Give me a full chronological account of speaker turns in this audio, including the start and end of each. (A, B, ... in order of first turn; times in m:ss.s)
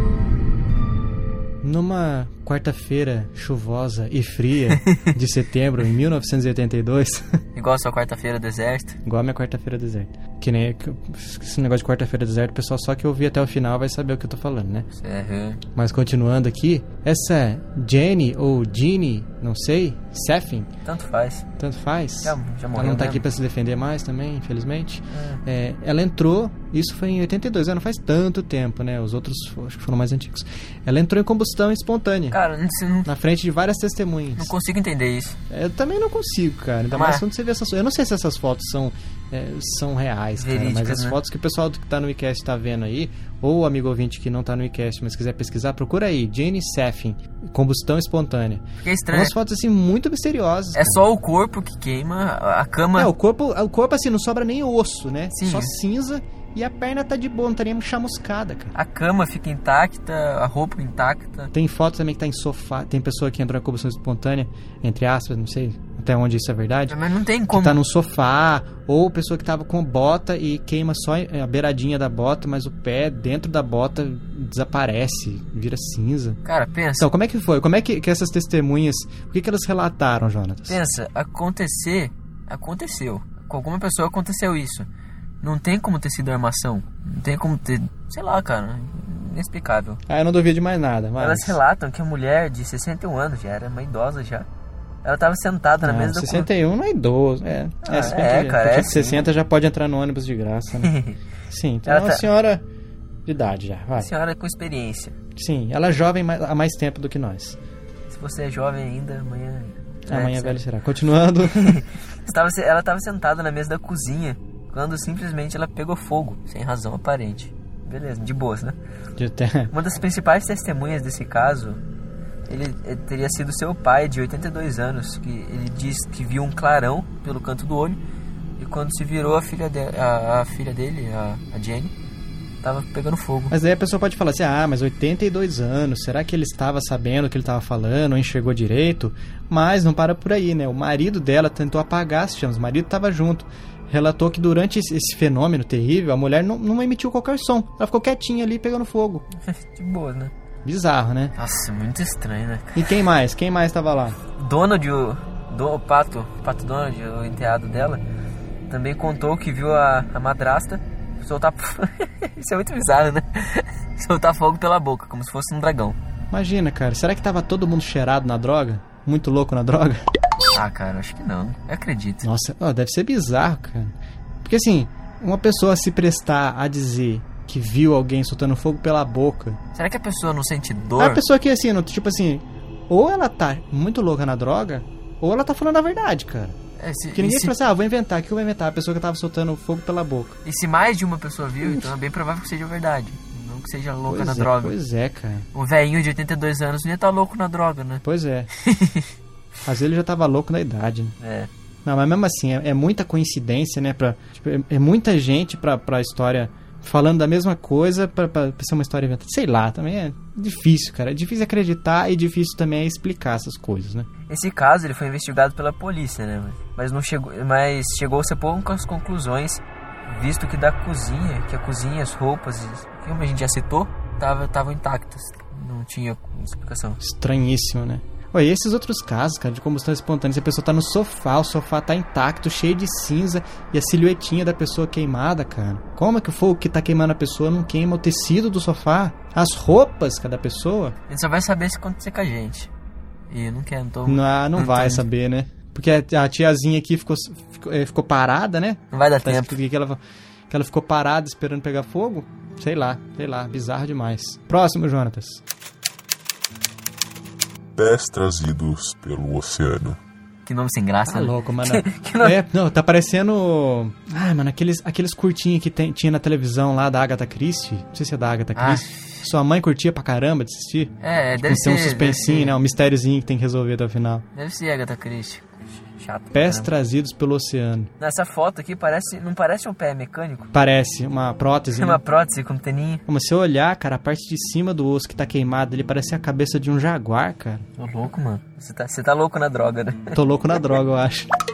0:01.6-0:07.4 A
0:04.7-0:05.0 B
0:07.6-0:09.0 B
0:09.0-0:14.9 A
0:15.0-0:15.6 B
0:15.8-0:20.7 A
0:20.8-0:21.5 B
0:21.6-0:32.4 A
0:22.2-0:23.2 B
0:25.1-0:25.4 B
0:32.3-0:33.1 B
0:33.0-0:34.5 A
0:34.4-0:35.4 B
0:35.5-0:51.0 A
0:36.9-0:37.2 B
0:40.4-0:41.2 B
0:48.8-0:49.3 B
0:50.8-0:53.1 B
0:53.0-0:58.7 A
0:55.3-0:55.7 B
0:58.7-1:01.5 B
1:01.5-1:07.0 A
1:06.9-1:07.8 B
1:07.5-1:16.4 A
1:16.4-1:17.1 B
1:17.0-1:20.8 A
1:20.7-1:24.9 B
1:25.4-1:30.0 B
1:30.1-1:31.6 A
1:31.2-1:34.5 B
1:35.0-1:36.5 B
1:35.8-1:41.0 A
1:37.8-1:39.3 B
1:40.8-1:41.2 B
1:41.5-1:42.6 A
1:41.9-1:42.2 B
1:43.2-1:44.1 A
1:44.0-1:45.1 B
1:45.4-1:47.6 A
1:48.1-1:50.6 B
1:50.1-1:51.8 A
1:51.4-1:58.8 B
1:59.2-1:59.7 A
1:59.7-2:01.8 B
2:02.5-2:08.0 B
2:08.6-2:11.9 B
2:12.6-2:13.6 B
2:13.5-2:29.2 A
2:29.4-2:30.3 B
2:30.6-2:31.4 A
2:31.4-2:33.0 B
2:32.8-2:34.2 A
2:34.4-2:38.0 B
2:38.7-2:46.0 B
2:46.3-2:50.0 A
2:50.5-2:52.2 B
2:52.2-2:59.6 A
2:59.8-3:01.2 B
3:01.0-3:06.6 A
3:06.8-3:07.6 B
3:07.1-3:10.4 A
3:10.4-3:14.8 B
3:11.6-3:11.9 A
3:14.1-3:15.5 A
3:15.5-3:18.0 B
3:18.0-3:18.5 A
3:18.6-3:19.1 B
3:19.6-3:21.2 A
3:21.2-3:21.5 B
3:21.8-3:34.1 A
3:34.3-3:47.0 B
3:47.0-4:01.0 A
4:01.1-4:02.7 B
4:03.3-4:05.0 B
4:04.1-4:15.4 A
4:08.9-4:09.6 B
4:17.8-4:20.0 C
4:20.5-4:22.4 B
4:21.1-4:34.2 A
4:28.6-4:29.3 B
4:31.0-4:32.6 B
4:34.4-4:36.7 B
4:36.3-4:37.9 A
4:38.0-4:40.5 B
4:40.5-4:42.0 A
4:41.8-4:43.0 B
4:43.1-4:47.7 A
4:47.8-4:50.2 B
4:50.1-4:51.3 A